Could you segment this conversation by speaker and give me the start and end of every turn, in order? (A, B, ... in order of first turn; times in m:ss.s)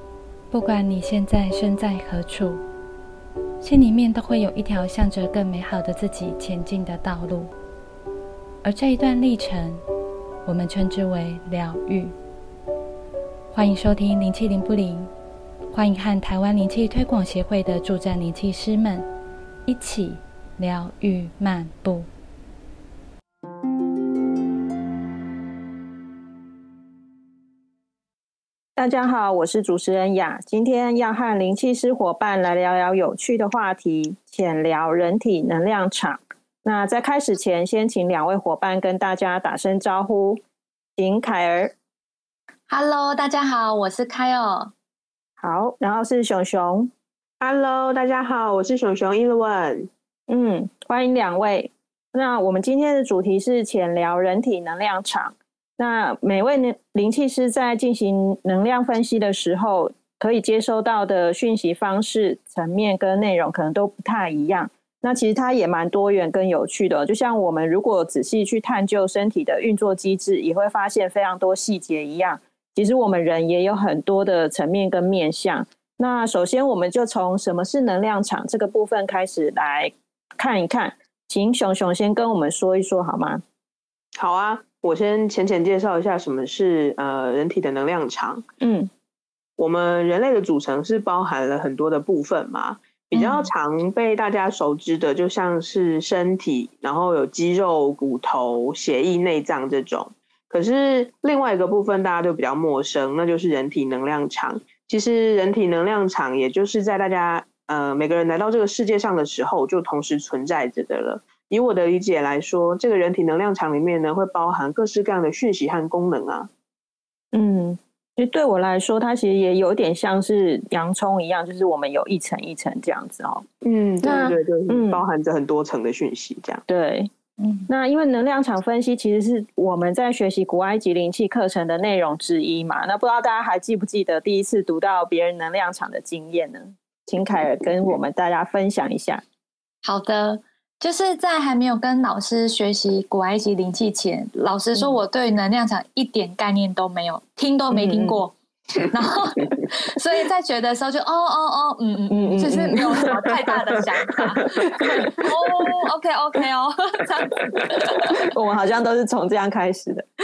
0:00.5-0:02.6 A
0:03.6-0:07.5 A
0:08.6-0:09.8 A
0:10.4-0:12.2 A
0:13.5-0:15.1 A
0:15.7-0:19.1 A
0:19.7-0:22.1 A
0:28.8-0:40.4 B
0:41.0-0:41.7 B
0:42.7-0:44.7 C
0:45.4-0:46.9 B
0:47.4-0:49.9 D
0:50.3-1:23.4 B
1:24.2-1:28.4 D
1:28.6-1:28.9 B
1:29.6-1:56.5 D
1:33.1-1:33.5 C
1:57.3-2:03.5 B
2:03.6-2:06.6 D
2:04.0-2:05.0 B
2:06.7-2:07.1 B
2:07.4-2:07.7 C
2:07.7-2:19.2 B
2:19.8-2:38.2 C
2:27.7-2:28.2 B
2:32.1-2:33.2 B
2:32.9-2:33.2 D
2:34.6-2:34.9 D
2:38.2-2:40.1 B